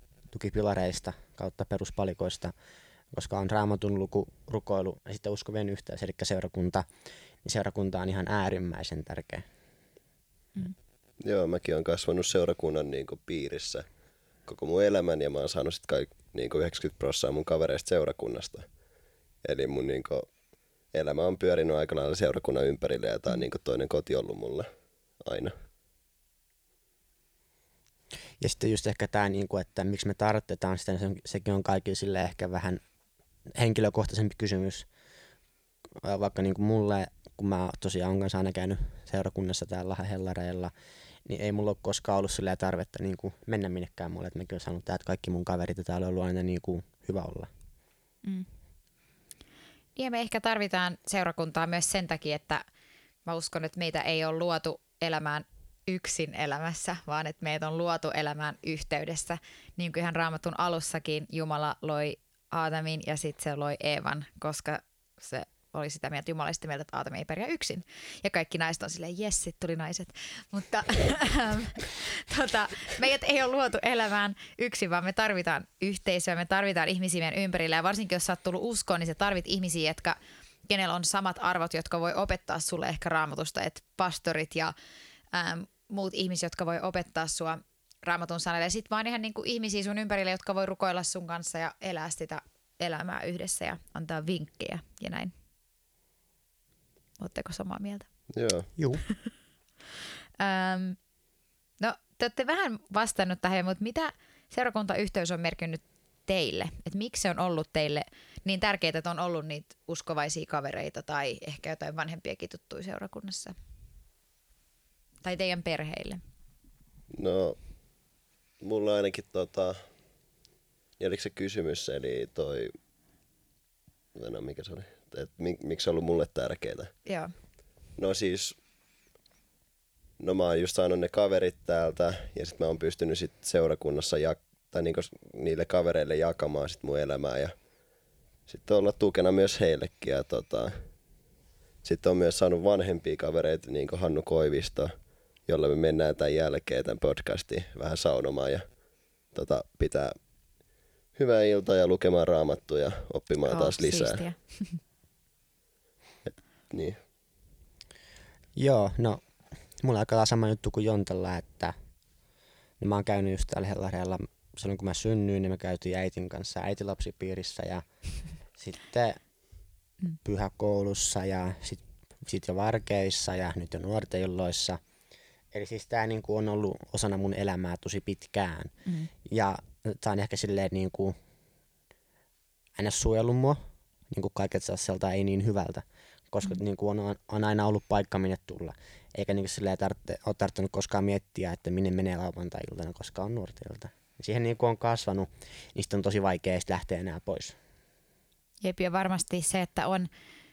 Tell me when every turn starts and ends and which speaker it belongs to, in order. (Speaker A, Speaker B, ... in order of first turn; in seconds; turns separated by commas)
Speaker A: 0.3-2.5, Speaker A: 3.1-6.8, Speaker A: 7.4-9.4, Speaker B: 11.2-13.8, Speaker B: 14.4-18.7, Speaker B: 19.4-20.2, Speaker B: 20.9-24.7, Speaker B: 25.2-25.5, Speaker A: 28.4-32.8, Speaker A: 33.5-34.9, Speaker A: 36.0-40.7, Speaker A: 41.2-47.5, Speaker C: 48.2-48.5, Speaker C: 50.0-52.6, Speaker C: 53.2-84.7, Speaker C: 85.3-95.3, Speaker C: 97.2-98.1, Speaker B: 98.3-98.7, Speaker A: 98.8-99.0, Speaker C: 100.4-101.0, Speaker C: 101.8-113.5, Speaker C: 115.2-116.2, Speaker B: 117.1-117.6, Speaker B: 118.6-119.8, Speaker B: 121.0-122.7, Speaker B: 124.1-126.9, Speaker C: 127.0-127.3, Speaker B: 128.0-128.6, Speaker B: 130.2-137.5, Speaker B: 138.5-140.7, Speaker B: 141.8-144.9, Speaker B: 145.4-148.8, Speaker B: 149.3-150.1, Speaker B: 151.2-154.2, Speaker C: 153.5-154.8, Speaker B: 156.2-156.9, Speaker A: 158.6-159.2, Speaker A: 159.8-161.7, Speaker A: 162.8-167.8, Speaker A: 168.5-169.2, Speaker A: 170.2-174.8, Speaker A: 175.5-181.1, Speaker C: 178.8-179.1, Speaker A: 182.8-197.6, Speaker C: 198.6-200.1